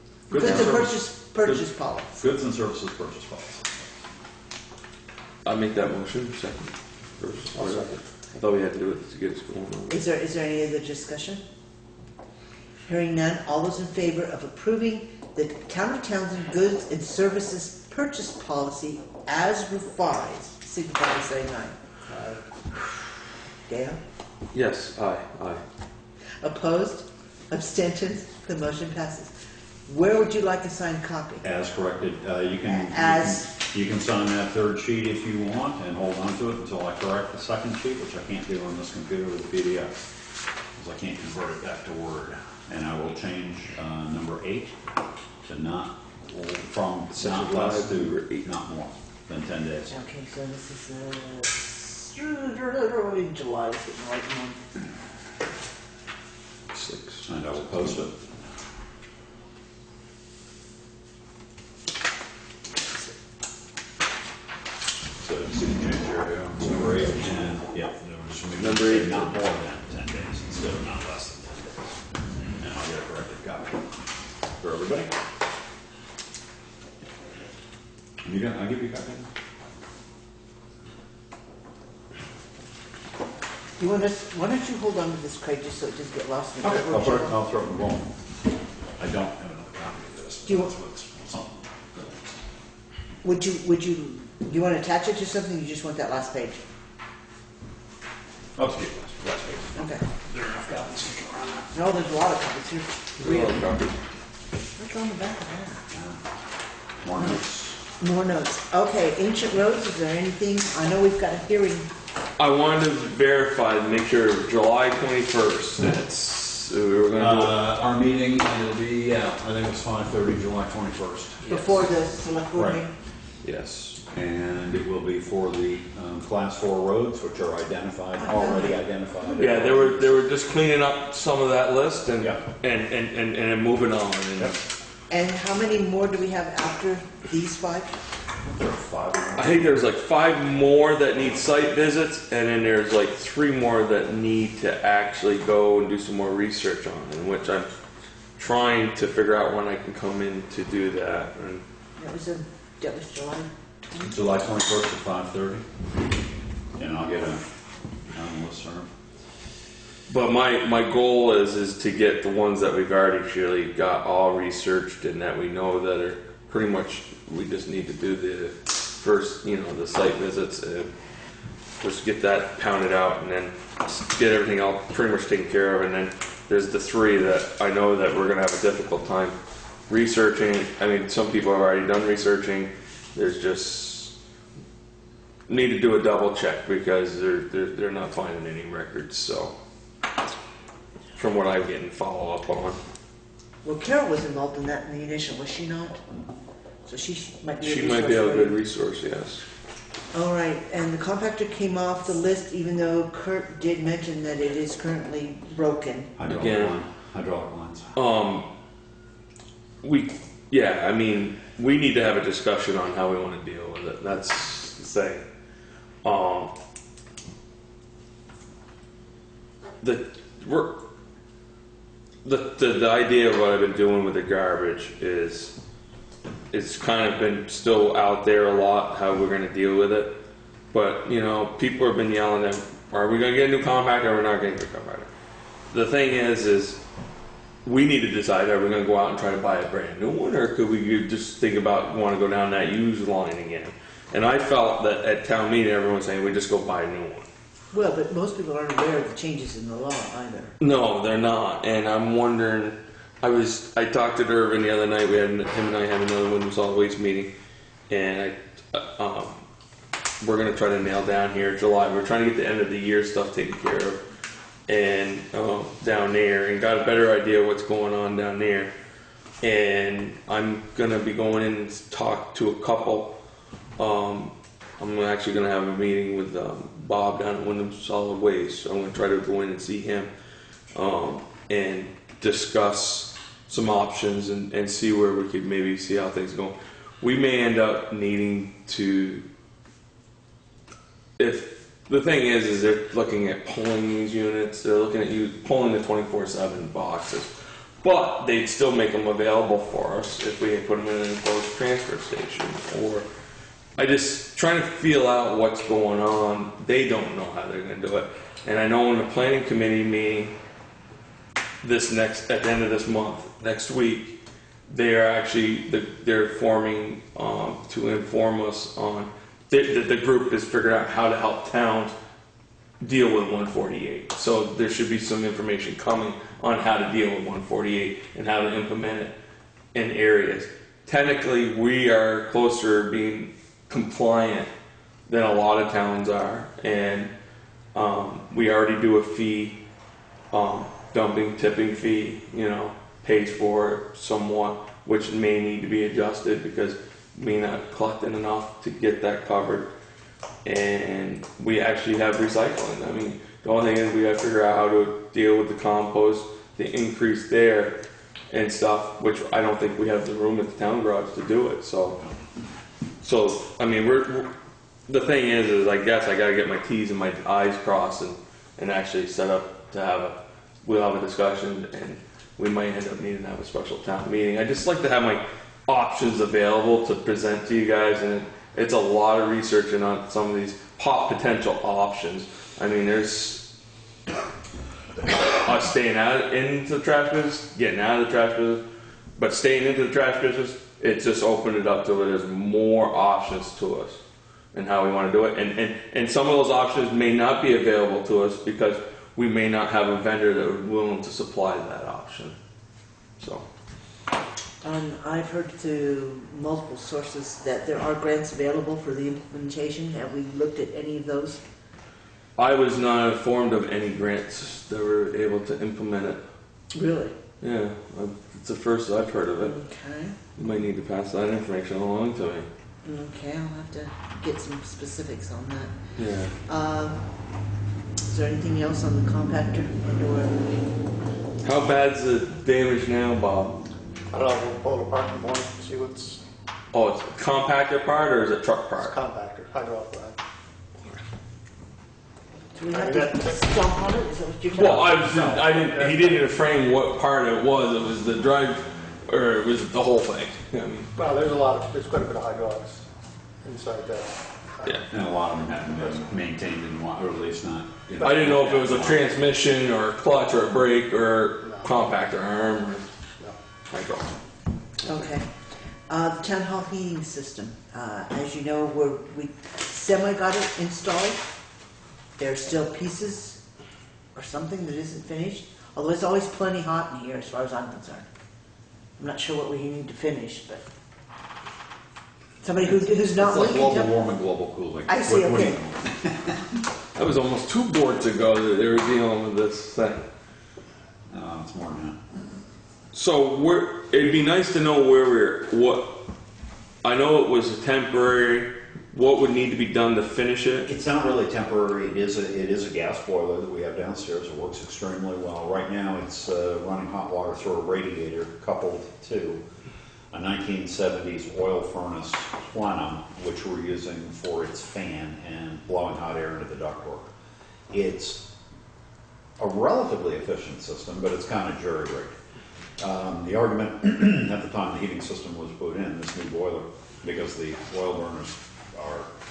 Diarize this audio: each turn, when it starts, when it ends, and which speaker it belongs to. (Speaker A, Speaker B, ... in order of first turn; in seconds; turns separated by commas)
Speaker A: 0.3-0.9, Speaker B: 0.3-0.9, Speaker C: 0.3-2.1, Speaker B: 2.1-3.7, Speaker A: 5.5-10.0, Speaker D: 7.5-8.0, Speaker C: 9.9-11.4, Speaker C: 12.9-21.8, Speaker D: 22.1-22.4, Speaker C: 23.7-24.0, Speaker A: 24.5-25.6, Speaker C: 26.4-29.3, Speaker C: 29.9-31.4, Speaker B: 31.4-40.0, Speaker C: 32.7-33.5, Speaker B: 40.8-44.8, Speaker B: 45.5-50.0, Speaker A: 47.2-48.5, Speaker C: 49.9-54.8, Speaker A: 56.7-58.0, Speaker B: 57.2-58.4, Speaker B: 65.2-72.0, Speaker A: 68.6-69.4, Speaker B: 72.6-73.8, Speaker B: 74.6-75.2, Speaker B: 78.2-79.3, Speaker C: 83.8-87.4, Speaker B: 86.6-88.2, Speaker B: 89.0-92.1, Speaker C: 90.5-90.7, Speaker C: 93.2-96.7, Speaker B: 98.6-101.7, Speaker C: 99.8-100.0, Speaker C: 101.7-103.6, Speaker A: 103.2-104.0, Speaker C: 104.8-105.8, Speaker B: 105.9-106.2, Speaker B: 107.0-107.8, Speaker C: 108.0-111.9, Speaker A: 112.4-117.7, Speaker B: 117.2-121.6, Speaker C: 121.5-122.9, Speaker B: 122.5-122.8, Speaker A: 123.4-124.0, Speaker B: 124.1-130.2, Speaker C: 128.2-128.8, Speaker A: 129.3-134.6, Speaker C: 135.1-138.0, Speaker B: 138.5-139.8, Speaker A: 139.4-147.7, Speaker A: 148.4-151.6, Speaker C: 152.0-154.1, Speaker B: 154.0-155.7, Speaker B: 156.8-157.4, Speaker B: 158.1-158.9, Speaker A: 160.1-170.9, Speaker A: 171.8-179.4, Speaker A: 179.9-184.1, Speaker A: 185.5-189.5, Speaker A: 191.2-192.8, Speaker C: 193.6-196.0, Speaker C: 196.9-198.6, Speaker A: 197.6-199.5, Speaker C: 200.1-206.1, Speaker B: 206.2-208.0, Speaker A: 206.3-206.8, Speaker A: 207.9-208.5, Speaker A: 209.8-215.2, Speaker A: 216.0-216.5, Speaker A: 219.8-220.8, Speaker A: 222.2-225.5, Speaker A: 226.5-230.1, Speaker A: 230.7-235.1, Speaker A: 235.7-236.8, Speaker A: 237.7-247.3, Speaker C: 247.7-250.6, Speaker A: 250.6-257.3, Speaker A: 257.9-259.4, Speaker A: 260.2-264.0, Speaker A: 264.7-268.7, Speaker A: 269.4-273.1, Speaker A: 273.8-280.1, Speaker A: 280.7-289.2, Speaker A: 291.2-303.1, Speaker A: 303.8-310.3, Speaker A: 311.6-314.2, Speaker A: 314.7-321.9, Speaker A: 322.8-329.1, Speaker A: 329.7-334.5, Speaker A: 335.1-337.1, Speaker A: 337.7-339.6, Speaker A: 340.3-349.7, Speaker A: 350.4-357.8, Speaker A: 358.3-362.0, Speaker A: 363.0-364.3, Speaker A: 364.9-383.5, Speaker A: 385.1-388.6, Speaker A: 389.2-394.0, Speaker A: 394.5-402.4, Speaker A: 403.2-403.5, Speaker C: 404.6-411.4, Speaker A: 412.4-416.2, Speaker C: 416.7-417.1, Speaker A: 417.4-419.6, Speaker C: 419.4-420.2, Speaker A: 420.4-422.5, Speaker C: 422.9-425.8, Speaker A: 426.0-426.4, Speaker C: 426.4-427.1, Speaker C: 428.1-430.5, Speaker A: 431.4-433.6, Speaker D: 434.1-436.2, Speaker A: 436.7-439.0, Speaker D: 438.8-440.2, Speaker C: 442.6-445.0, Speaker D: 442.7-443.5, Speaker A: 444.6-450.9, Speaker D: 444.6-446.4, Speaker D: 451.0-452.9, Speaker D: 453.4-454.9, Speaker B: 454.9-459.0, Speaker D: 455.5-456.0, Speaker D: 458.0-458.9, Speaker A: 458.0-462.9, Speaker D: 461.4-461.7, Speaker A: 463.7-464.1, Speaker C: 464.8-465.3, Speaker C: 465.9-471.3, Speaker C: 472.2-473.4, Speaker C: 474.1-478.1, Speaker C: 479.0-480.6, Speaker C: 482.4-483.9, Speaker B: 482.7-486.4, Speaker C: 484.9-485.6, Speaker A: 486.9-490.1, Speaker B: 491.1-492.0, Speaker A: 492.9-496.1, Speaker A: 496.8-500.7, Speaker B: 500.7-509.4, Speaker B: 510.1-517.1, Speaker B: 517.7-518.3, Speaker B: 519.4-522.2, Speaker B: 522.8-529.1